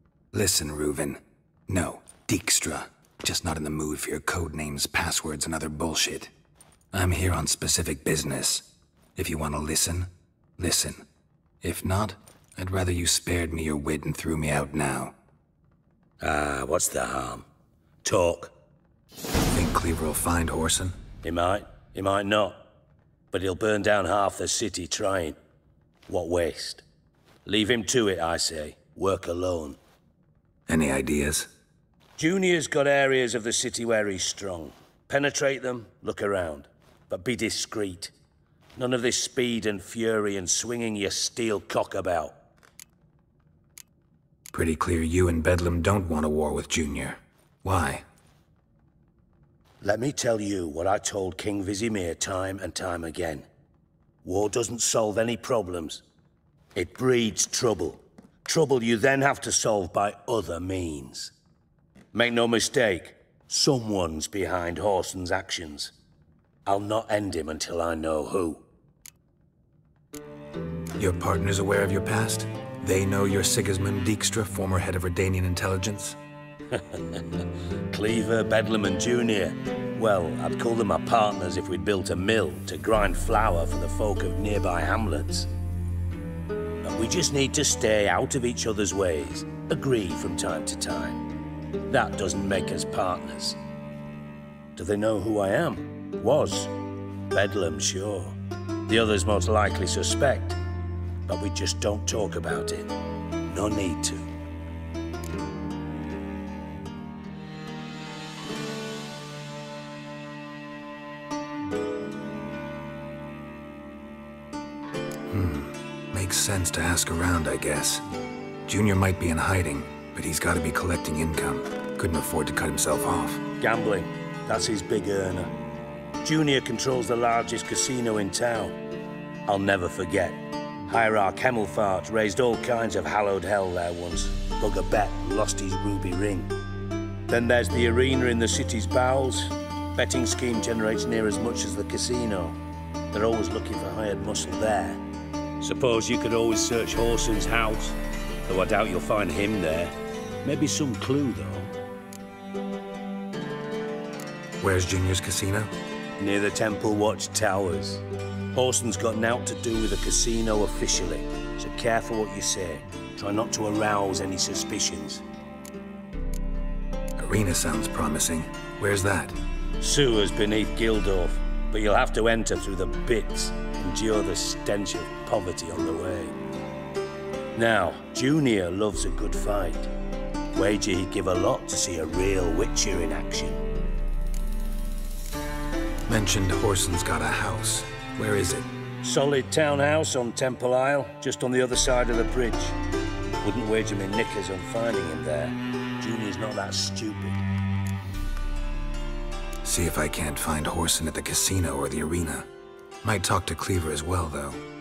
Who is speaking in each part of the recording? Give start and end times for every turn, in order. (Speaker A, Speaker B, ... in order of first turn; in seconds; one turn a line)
Speaker A: 0.3-6.3
Speaker A: 6.9-11.0
Speaker A: 11.6-15.1
Speaker B: 16.2-17.4
Speaker B: 18.0-18.5
Speaker A: 19.5-20.9
Speaker B: 21.2-22.6
Speaker B: 23.3-25.4
Speaker B: 26.1-26.8
Speaker B: 27.4-29.8
Speaker A: 30.7-31.5
Speaker B: 32.2-38.1
Speaker B: 38.8-42.3
Speaker A: 44.5-48.0
Speaker B: 49.8-53.5
Speaker B: 54.2-56.0
Speaker B: 56.7-61.3
Speaker B: 62.1-65.9
Speaker B: 66.7-68.6
Speaker A: 71.0-76.2
Speaker B: 76.7-85.5
Speaker B: 86.8-91.2
Speaker B: 91.9-93.6
Speaker B: 94.8-96.7
Speaker B: 97.3-100.6
Speaker B: 101.3-102.9
Speaker B: 103.5-104.3
Speaker A: 115.3-118.0
Speaker A: 118.7-123.4
Speaker B: 123.6-125.5
Speaker B: 126.2-128.8
Speaker B: 129.4-136.5
Speaker B: 137.3-142.6
Speaker B: 143.1-145.0
Speaker B: 145.6-151.7
Speaker A: 154.6-155.7
Speaker B: 156.2-165.2
Speaker A: 167.2-169.4
Speaker B: 169.8-176.3
Speaker B: 177.5-179.9
Speaker B: 180.5-183.6
Speaker A: 186.1-188.7
Speaker B: 189.0-192.8
Speaker B: 193.4-197.4
Speaker A: 199.6-202.5
Speaker A: 203.0-204.6